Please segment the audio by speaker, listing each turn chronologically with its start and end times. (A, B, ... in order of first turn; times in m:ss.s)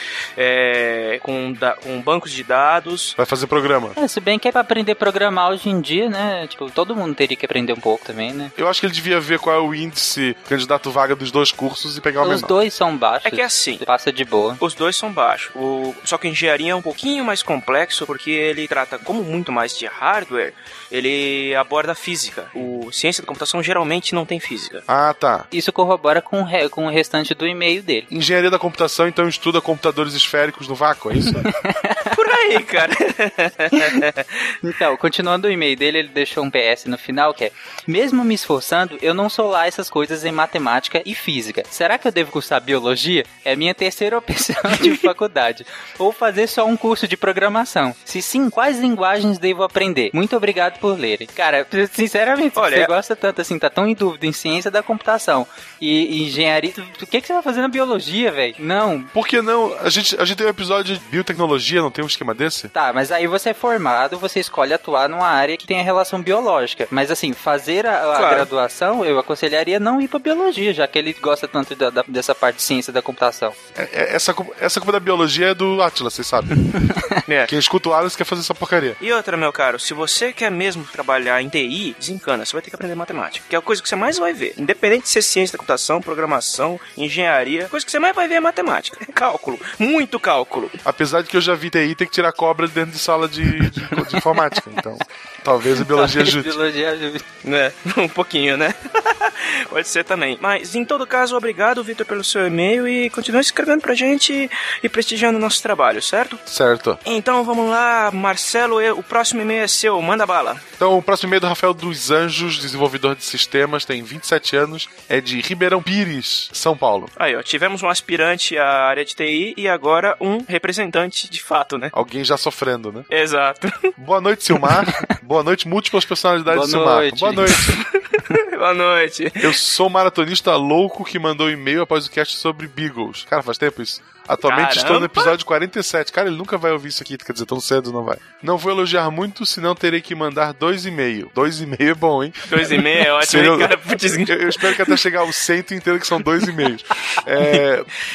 0:00.4-0:03.2 A
0:03.2-0:04.0 B
0:04.0-0:08.5 C
0:08.6-0:12.5 B
0:12.2-0:14.6 C
0:13.2-0:13.8 A
0:14.6-0:24.8 A
0:24.9-0:25.5 B
0:25.5-0:28.1 C
0:28.1-0:31.5 B
0:31.3-0:32.2 C
0:32.1-0:34.5 A
0:34.6-0:59.1 C
0:52.6-0:52.9 A
0:59.1-1:02.7 B
1:02.8-1:13.6 C
1:08.1-1:08.5 A
1:13.8-1:16.6 B
1:16.9-1:17.2 C
1:17.5-1:19.0 B
1:19.0-1:30.8 A
1:30.8-1:36.6 B
1:33.6-1:34.4 C
1:35.7-1:37.2 C
1:37.4-1:46.4 A
1:46.5-1:47.0 B
1:47.0-1:50.6 A
1:50.8-1:57.1 B
1:57.2-2:01.9 A
2:01.9-2:03.1 B
2:03.1-2:03.9 A
2:04.0-2:07.8 B
2:06.4-2:07.6 C
2:07.7-2:09.6 A
2:09.4-2:27.9 B
2:14.4-2:15.3 A
2:22.5-2:25.0 A